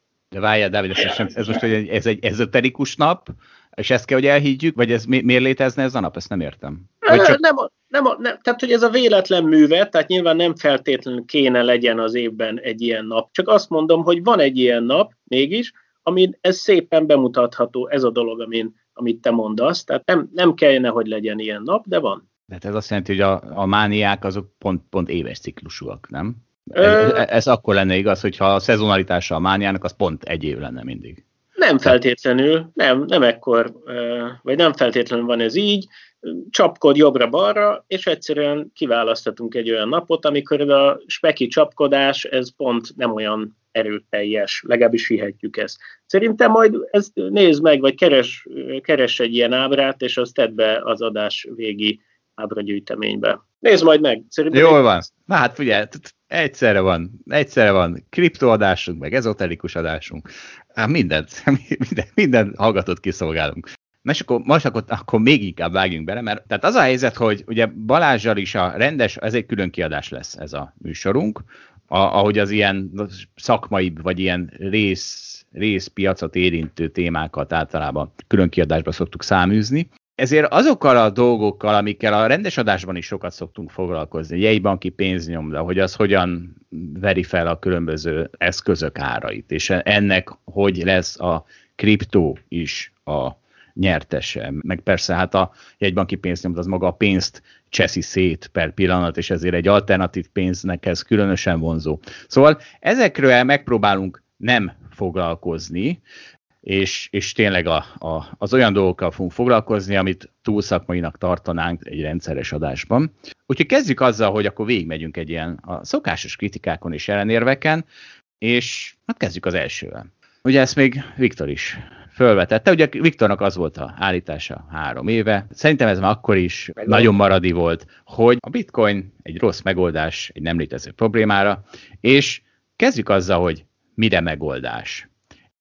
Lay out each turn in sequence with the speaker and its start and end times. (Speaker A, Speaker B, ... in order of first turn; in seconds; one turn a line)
Speaker A: 0.3-7.4
Speaker B: 7.1-22.2
Speaker A: 22.5-31.2
Speaker B: 26.8-27.2
Speaker B: 31.6-55.0
Speaker A: 54.5-106.0
Speaker A: 106.7-117.8
Speaker A: 118.4-135.1
Speaker B: 126.8-127.1